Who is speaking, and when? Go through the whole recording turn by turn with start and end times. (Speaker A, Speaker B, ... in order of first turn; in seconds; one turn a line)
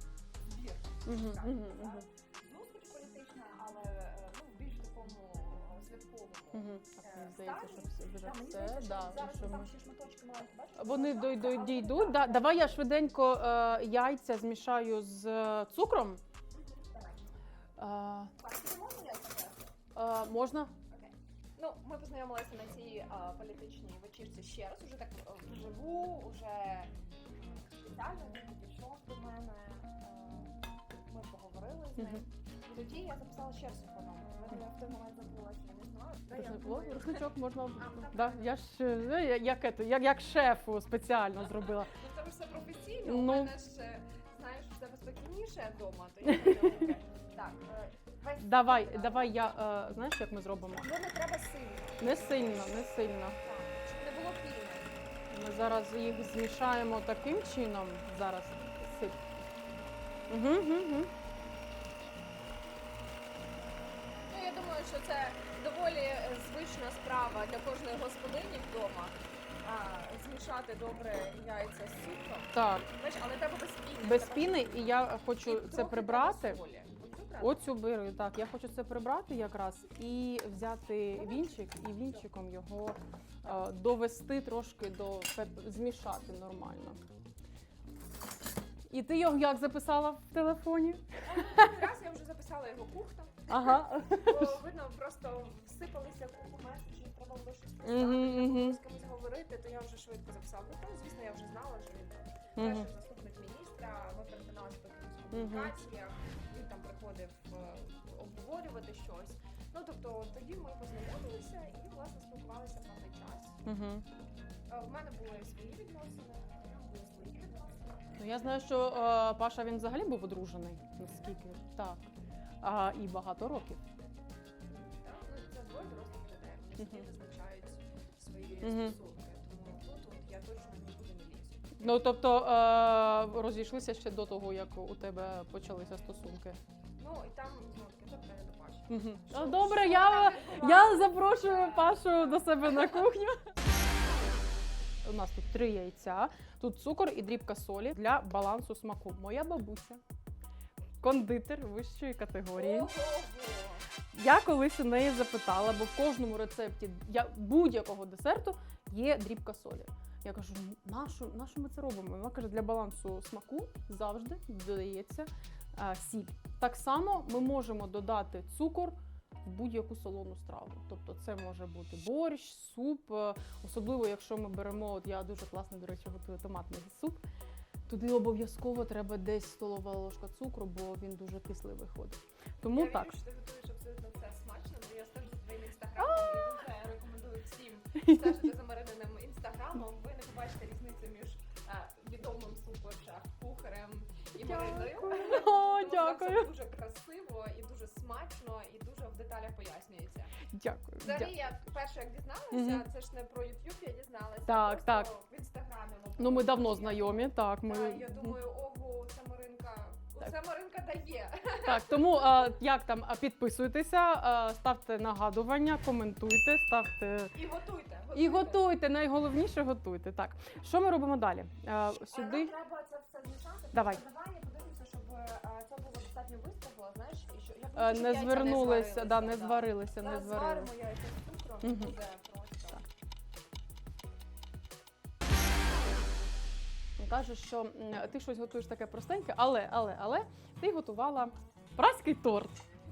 Speaker A: 0.4-12.8
Speaker B: 1.1-2.0
Speaker B: 6.5-9.7
Speaker B: 10.8-16.2
Speaker A: 16.5-17.3
Speaker B: 17.8-18.3
Speaker A: 18.4-19.8
Speaker B: 19.9-20.7
Speaker A: 20.9-38.6
Speaker B: 32.0-32.2
Speaker B: 36.3-41.9
Speaker A: 41.5-49.4
Speaker B: 43.0-43.5
Speaker B: 46.3-46.7
Speaker B: 48.4-50.9
Speaker A: 50.8-55.0
Speaker B: 52.0-53.4
Speaker B: 55.3-59.2
Speaker B: 60.3-61.1
Speaker A: 64.3-77.7
Speaker B: 72.5-72.9
Speaker B: 74.0-76.6
Speaker B: 77.4-87.0
Speaker A: 81.1-82.2
Speaker B: 88.9-91.8
Speaker A: 91.3-113.6
Speaker B: 93.5-94.6
Speaker B: 97.8-98.8
Speaker B: 102.6-102.9
Speaker B: 105.3-105.7
Speaker B: 113.7-114.0
Speaker A: 114.7-118.5
Speaker B: 118.2-122.1
Speaker B: 122.6-123.8
Speaker A: 124.7-131.8
Speaker B: 126.8-127.1
Speaker B: 128.6-129.0
Speaker B: 131.8-136.6
Speaker A: 137.0-142.9
Speaker B: 138.9-143.5
Speaker B: 145.0-150.0
Speaker B: 151.0-152.9
Speaker A: 152.6-153.9
Speaker B: 154.1-177.2
Speaker B: 177.9-183.1
Speaker A: 182.7-200.4
Speaker B: 186.0-186.6
Speaker B: 194.4-196.5
Speaker B: 200.5-201.3
Speaker A: 201.0-212.5
Speaker B: 202.5-202.9
Speaker B: 204.5-205.1
Speaker B: 206.2-208.4
Speaker B: 211.7-217.3
Speaker A: 217.3-218.7
Speaker B: 218.2-222.5
Speaker A: 222.1-232.8
Speaker B: 223.7-224.0
Speaker B: 227.8-230.7
Speaker B: 231.6-231.9
Speaker B: 237.0-242.6